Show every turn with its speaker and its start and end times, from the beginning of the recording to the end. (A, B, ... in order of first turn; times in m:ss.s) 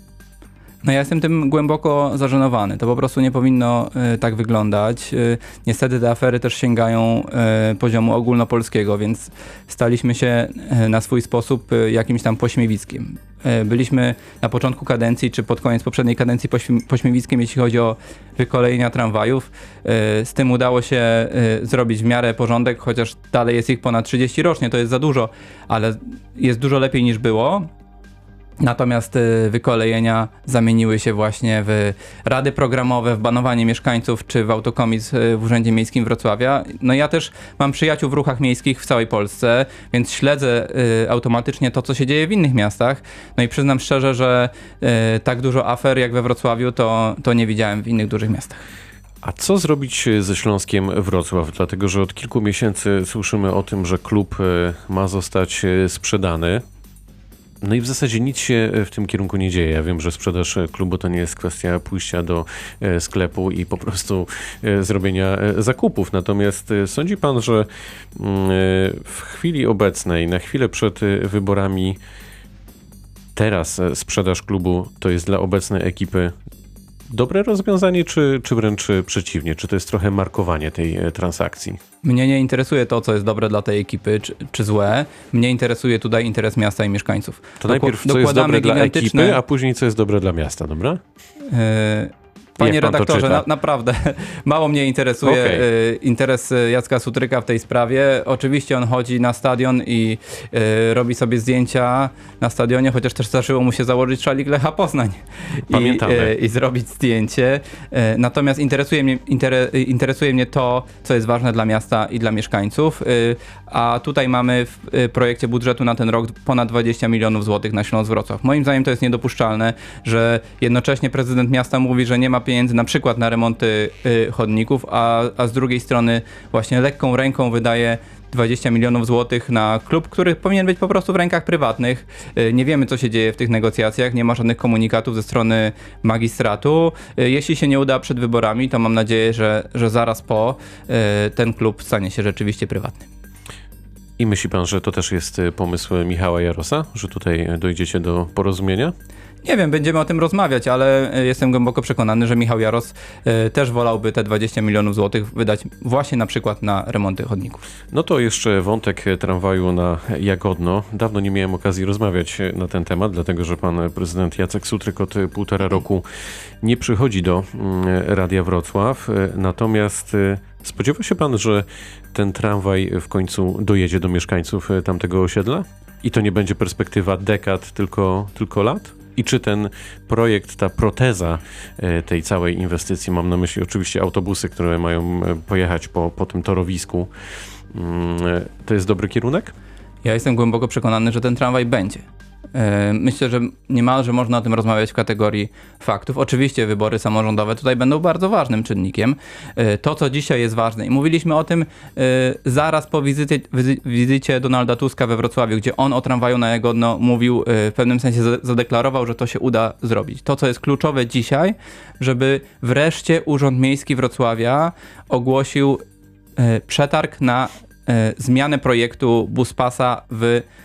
0:00.8-0:27.7 A
0:28.6-0:48.6 A
0:49.2-0:56.6 B
0:57.6-1:12.0 B
1:13.3-1:16.3 B
1:17.1-1:21.8 B
1:22.0-1:29.4 A
1:27.6-1:31.0 B
1:31.5-2:23.0 A
1:32.6-1:33.4 B
1:35.2-1:35.6 B
1:45.7-1:46.4 B
2:24.2-2:28.9 B
2:29.4-2:37.6 A
2:37.9-2:46.0 B
2:46.6-3:07.1 B
3:07.7-3:09.5 B
3:10.0-3:35.8 A
3:36.4-3:40.4 A